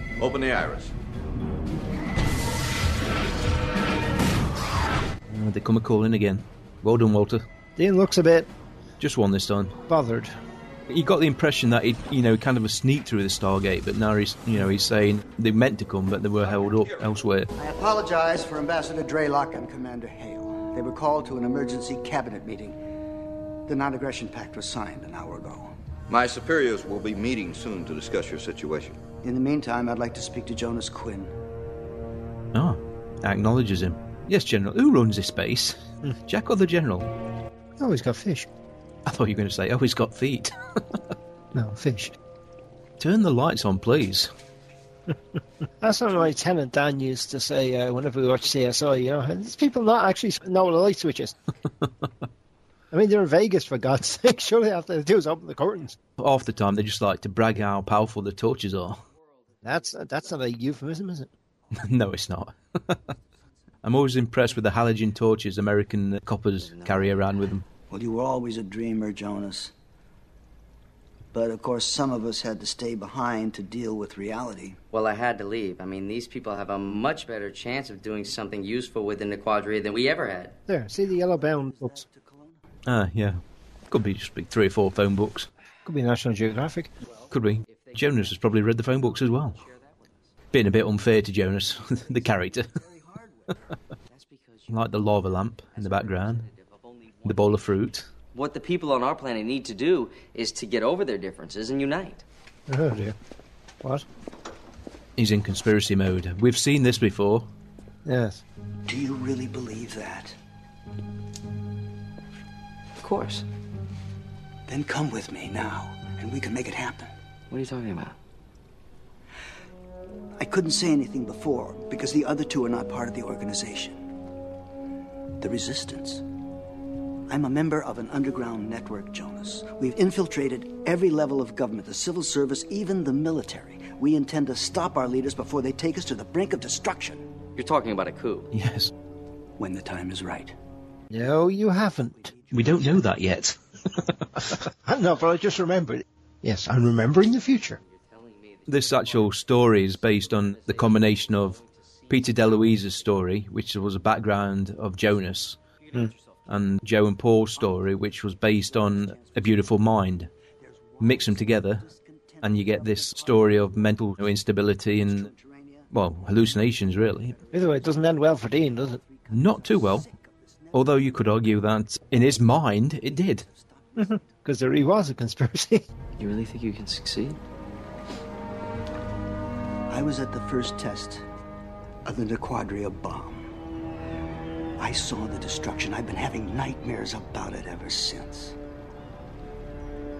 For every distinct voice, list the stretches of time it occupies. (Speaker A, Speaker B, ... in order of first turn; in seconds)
Speaker A: 0.2-0.9, 26.1-29.0
Speaker B: 5.3-7.4, 9.0-9.8, 10.9-17.5, 32.5-37.1, 39.0-40.9, 43.0-44.3, 56.2-59.0, 61.7-63.0, 63.8-67.7, 82.8-85.5, 87.3-89.6, 90.5-92.7, 94.7-96.5, 97.2-98.1, 105.2-107.5, 138.5-138.9, 142.5-144.2, 148.7-155.6, 156.5-160.3, 161.0-161.9, 162.4-165.3, 165.9-167.4, 169.3-170.1, 170.7-173.4
Speaker C: 7.8-8.5, 9.9-10.3, 37.8-38.5, 41.5-42.1, 45.8-51.3, 52.9-56.0, 59.6-61.3, 80.7-82.0, 85.8-86.9, 102.7-103.2, 108.0-108.4, 141.1-142.3, 144.5-147.8, 167.5-169.0, 173.9-175.8
Speaker D: 17.6-22.8, 23.7-25.7, 29.2-31.4, 67.9-69.7, 71.3-74.8, 81.5-82.6, 108.9-110.3, 114.7-117.1, 120.4-124.0, 125.4-126.2, 127.3-137.3, 139.6-140.6, 160.6-163.2, 165.0-165.9, 168.8-170.8, 173.5-174.1, 179.9-181.2, 182.0-183.5, 184.8-188.6
Speaker E: 74.9-80.5, 98.3-102.2, 113.0-113.4, 117.5-118.2, 137.6-138.5, 176.2-177.4